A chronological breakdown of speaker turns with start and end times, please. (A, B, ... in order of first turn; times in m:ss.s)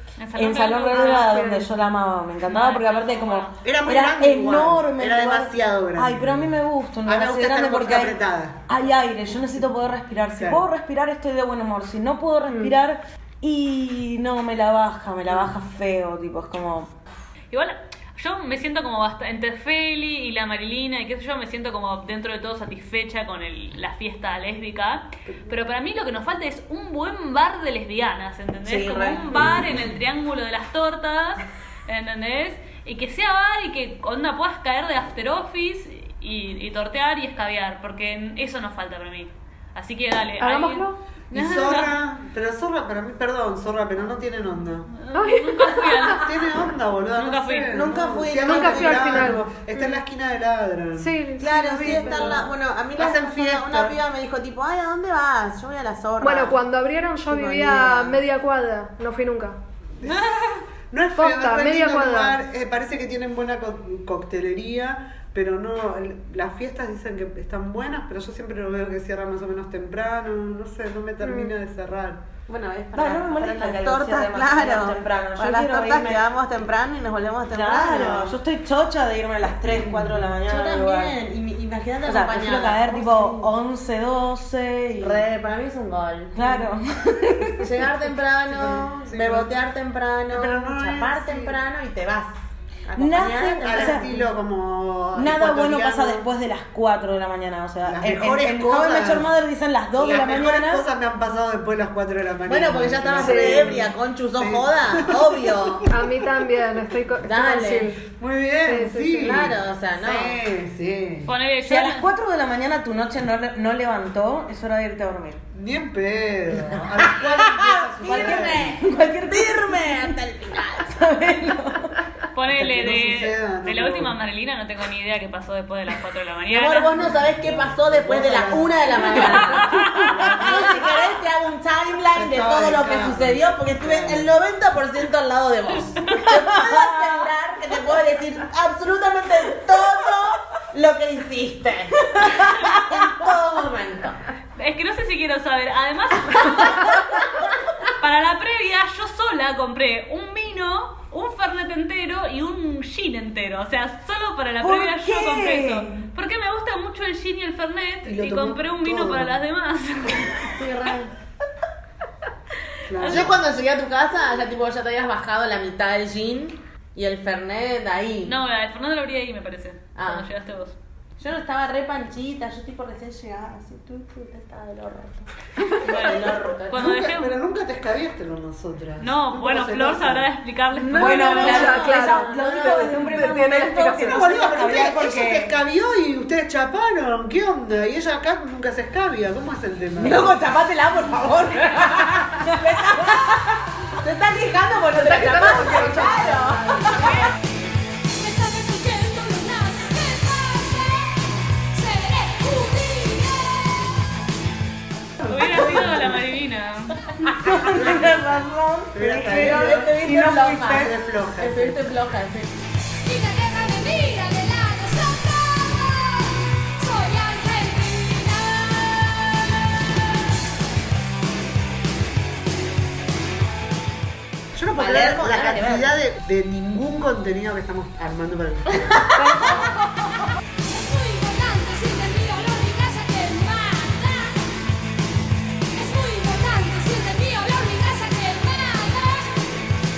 0:00.2-0:01.5 A
0:00.4-0:08.2 B
0:01.2-0:01.6 C
0:02.4-0:03.6 A
0:03.6-0:06.5 D
0:07.1-0:08.6 D
0:08.7-0:16.9 B
0:09.3-0:09.6 D
0:10.4-0:10.6 D
0:12.5-0:12.7 C
0:15.3-0:15.5 D
0:17.5-0:42.0 A
0:28.6-0:29.9 B
0:40.4-0:41.0 C
0:41.3-0:44.9 D
0:45.0-0:46.3 A
0:45.1-0:46.2 C
0:46.1-0:54.0 D
0:47.1-0:47.7 A
0:47.7-0:49.3 E
0:48.4-0:49.9 C
0:51.0-0:52.4 C
0:51.4-0:56.6 E
0:56.2-0:59.6 C
0:57.3-0:58.2 E
1:00.0-1:00.3 D
1:00.0-1:00.6 A
1:00.9-1:12.2 D
1:01.2-1:02.4 C
1:11.2-1:11.6 C
1:12.5-1:18.4 E
1:12.9-1:16.2 B
1:17.5-1:21.1 B
1:20.4-1:23.5 E
1:22.0-1:25.2 B
1:25.0-1:26.6 E
1:26.4-1:27.8 B
1:27.6-1:32.4 E
1:29.1-1:29.5 D
1:30.3-1:31.6 D
1:32.9-1:34.2 E
1:33.0-1:34.1 B
1:33.2-1:36.3 D
1:35.1-1:40.8 B
1:37.8-1:39.3 D
1:40.0-1:45.9 D
1:42.5-1:45.9 E
1:43.2-1:43.8 C
1:45.9-1:48.0 C
1:47.2-1:47.9 E
1:48.1-1:51.3 D
1:48.6-1:49.4 C
1:49.2-1:50.4 E
1:51.3-1:52.1 A
1:51.6-1:55.4 B
1:55.5-1:58.8 D
1:57.0-2:01.0 E
1:58.0-2:00.2 B
2:00.9-2:02.0 B
2:02.3-2:07.0 A
2:02.5-2:04.2 D
2:06.5-2:24.2 E
2:07.4-2:10.8 D
2:09.3-2:10.1 A
2:12.1-2:14.3 D
2:16.2-2:17.3 B
2:22.1-2:22.6 B
2:24.6-2:40.5 A
2:34.6-2:36.0 B
2:38.0-2:39.3 D
2:40.6-2:41.1 E
2:42.9-2:43.3 D
2:43.0-2:43.4 A
2:43.0-2:48.3 E
2:48.2-2:50.8 A
2:50.0-2:50.2 E
2:51.2-2:56.9 E
2:55.8-2:57.3 A
2:56.7-3:00.3 D
2:59.0-3:01.8 A
3:00.8-3:04.2 C
3:00.9-3:05.5 B
3:01.3-3:03.0 E
3:04.0-3:10.3 D
3:10.0-3:13.4 E
3:12.2-3:13.6 B
3:14.0-3:17.3 E
3:15.1-3:16.1 B
3:15.4-3:16.9 C
3:17.0-3:17.3 A
3:18.1-3:24.1 F
3:25.2-3:26.0 D
3:25.2-3:27.3 A
3:27.3-3:30.9 B
3:28.9-3:32.0 D
3:29.3-3:32.5 E
3:33.0-3:39.3 F
3:44.5-3:48.9 D
3:44.8-3:45.9 E
3:48.8-3:49.6 E
3:50.6-3:54.5 F
3:55.7-3:59.4 F